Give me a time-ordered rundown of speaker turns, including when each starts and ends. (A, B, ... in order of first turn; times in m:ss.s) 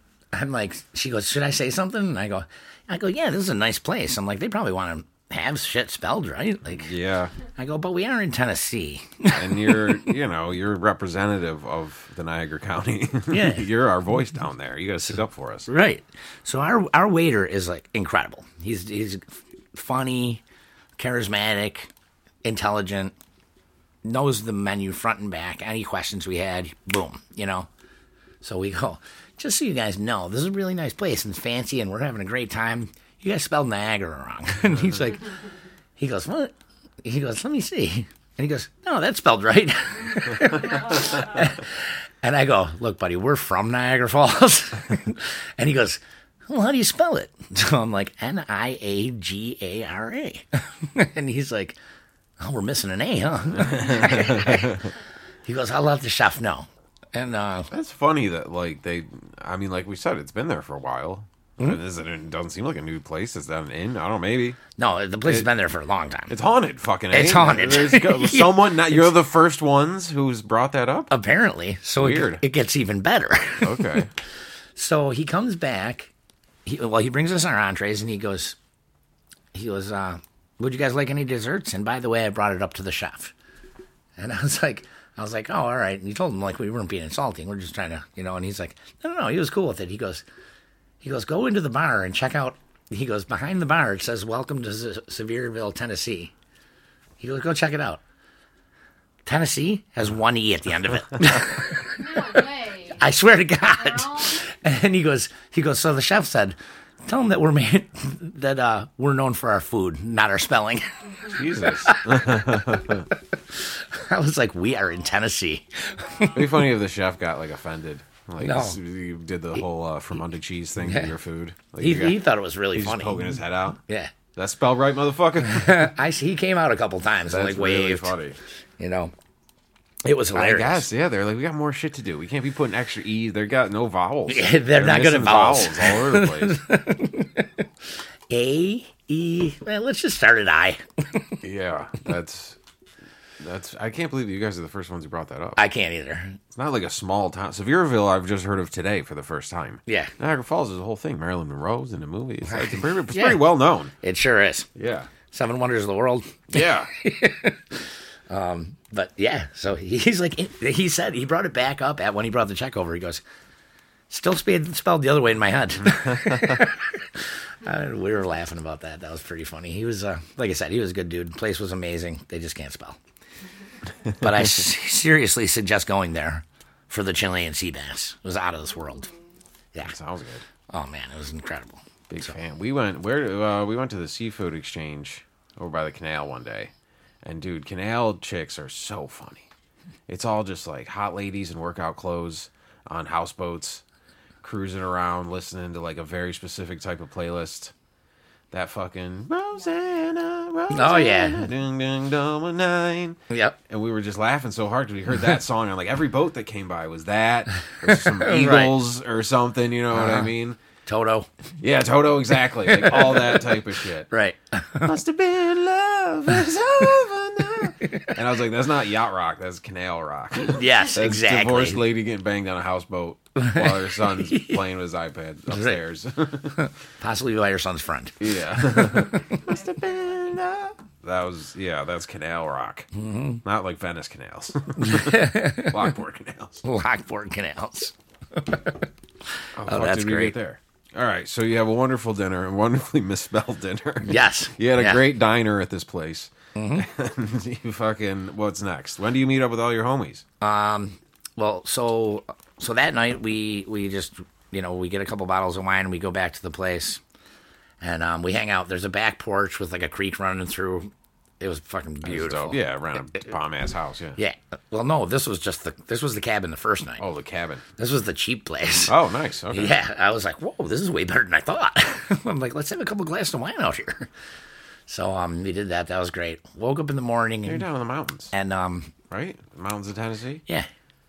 0:00.3-0:06.9 A
0:06.7-0:07.3 B
0:07.6-0:10.0 A
0:09.3-0:15.7 B
0:13.3-0:13.7 A
0:15.7-0:20.4 A
0:21.0-0:21.9 A
0:22.4-0:23.1 A
0:24.0-0:27.7 A
0:28.4-0:35.3 A
0:36.0-0:51.8 A
0:52.4-0:54.9 A
0:53.6-0:54.8 B
0:55.4-0:57.7 A
0:57.7-1:04.6 B
1:04.8-1:06.3 A
1:06.3-1:11.1 B
1:07.1-1:09.1 A
1:11.1-1:13.9 A
1:12.0-1:12.4 B
1:13.6-1:14.1 B
1:14.8-1:16.1 A
1:16.7-1:18.6 A
1:19.5-1:23.3 A
1:24.2-1:30.2 A
1:31.0-1:36.3 A
1:37.2-1:38.0 A
1:39.3-1:42.3 A
1:41.9-1:43.0 C
1:43.0-1:56.4 A
1:43.8-1:44.4 C
1:51.3-1:53.1 B
1:56.3-2:02.2 B
1:58.4-1:58.8 A
2:00.8-2:01.1 A
2:01.8-2:04.1 A
2:02.7-2:03.8 B
2:04.4-2:05.9 B
2:05.5-2:08.1 A
2:07.3-2:08.4 B
2:08.8-2:09.1 A
2:10.0-2:10.9 A
2:10.3-2:16.6 B
2:14.3-2:17.6 A
2:18.3-2:21.4 A
2:21.4-2:22.6 B
2:23.4-2:25.6 B
2:25.6-2:26.4 A
2:26.5-2:33.9 B
2:29.9-2:30.1 A
2:32.5-2:33.4 A
2:34.0-2:34.7 A
2:34.8-2:35.1 B
2:35.3-2:43.2 A
2:36.5-2:36.9 B
2:44.1-2:53.0 A
2:46.0-2:46.6 B
2:54.2-2:59.1 A
2:59.0-2:59.2 C
2:59.8-3:00.4 B
3:00.7-3:02.3 A
3:02.1-3:06.7 B
3:07.2-3:09.5 B
3:10.1-3:13.8 B
3:14.4-3:17.7 B
3:18.5-3:30.6 B
3:20.7-3:21.5 A
3:23.3-3:23.6 A
3:27.9-3:28.8 A
3:29.9-3:30.3 A
3:30.9-3:31.3 A
3:31.6-3:34.1 B
3:32.7-3:33.5 A
3:34.1-3:34.9 A
3:34.8-3:46.7 B
3:37.9-3:38.1 A
3:40.4-3:41.8 A
3:43.4-3:44.6 A
3:45.5-3:45.8 A
3:46.6-3:49.4 A
3:48.2-3:52.9 B
3:49.3-3:50.4 C
3:52.9-3:53.4 A
3:53.4-3:56.6 B
3:54.8-3:55.8 A
3:56.6-3:58.8 A
3:59.6-4:10.2 B
3:59.6-4:00.4 A
4:04.0-4:05.0 A
4:06.6-4:06.9 A
4:10.4-4:17.0 A
4:17.8-4:22.6 A
4:22.0-4:24.2 B
4:24.2-4:27.0 A
4:27.0-4:27.6 B
4:27.8-4:28.9 A
4:28.9-4:29.8 B
4:29.5-4:34.1 A
4:34.9-4:37.7 A
4:37.4-4:38.3 B
4:38.3-4:38.9 A
4:39.1-4:40.4 B